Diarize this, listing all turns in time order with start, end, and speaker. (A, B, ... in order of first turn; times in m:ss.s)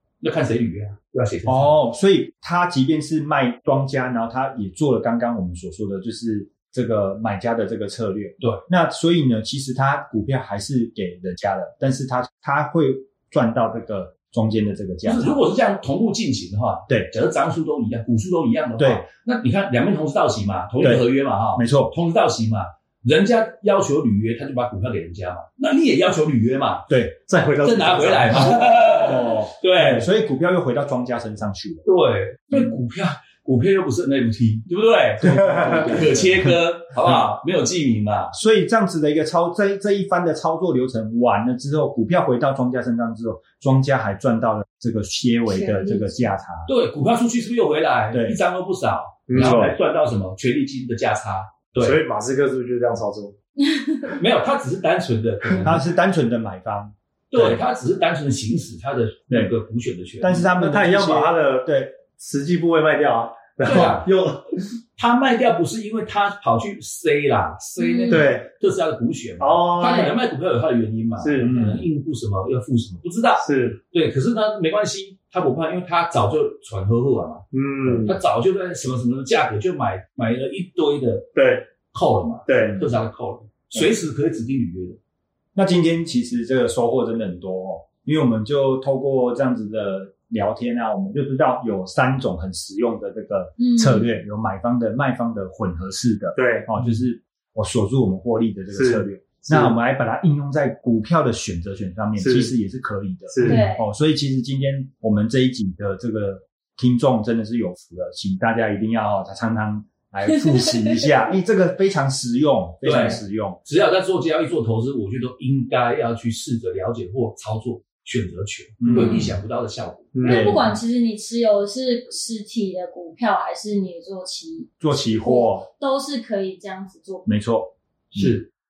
0:00.2-0:01.8 A
0:01.5-0:15.4 B
0:15.0-0:26.9 A
0:18.8-0:19.0 B
0:20.8-0:21.9 B
0:26.9-0:27.2 B
0:27.3-0:28.7 C
0:27.6-0:30.1 A
0:28.3-0:31.8 B
0:31.8-0:38.3 A
0:35.2-0:37.2 B
0:38.3-0:46.7 B
0:45.5-0:46.3 D
0:46.7-0:52.0 A
0:48.1-0:48.4 B
0:49.3-0:49.7 C
0:49.3-0:49.7 B
0:51.8-0:53.4 C
0:53.6-0:54.0 D
0:54.1-0:55.8 A
0:55.6-0:57.6 B
0:57.3-1:00.5 A
1:00.2-1:01.9 B
1:00.5-1:04.5 C
1:03.6-1:04.1 A
1:05.0-1:17.4 A
1:07.8-1:08.3 D
1:08.1-1:08.5 C
1:09.4-1:10.2 C
1:09.8-1:10.1 D
1:11.2-1:11.7 C
1:11.4-1:11.8 B
1:13.4-1:13.8 C
1:17.5-1:18.2 C
1:17.8-1:18.1 B
1:18.0-1:21.3 A
1:21.4-1:21.7 C
1:21.9-1:25.0 A
1:22.5-1:22.8 C
1:22.6-1:22.9 B
1:25.6-1:53.6 B
1:33.6-1:34.1 D
1:36.4-1:36.7 C
1:38.7-1:39.7 C
1:42.2-1:42.5 C
1:43.3-1:43.6 C
1:43.4-1:43.9 D
1:50.3-1:51.1 D
1:52.8-2:00.2 A
1:58.8-1:59.4 B
1:59.0-1:59.3 D
2:00.2-2:00.6 C
2:00.2-2:00.8 B
2:00.2-2:07.3 D
2:04.8-2:05.7 B
2:07.3-2:08.4 B
2:08.1-2:08.5 A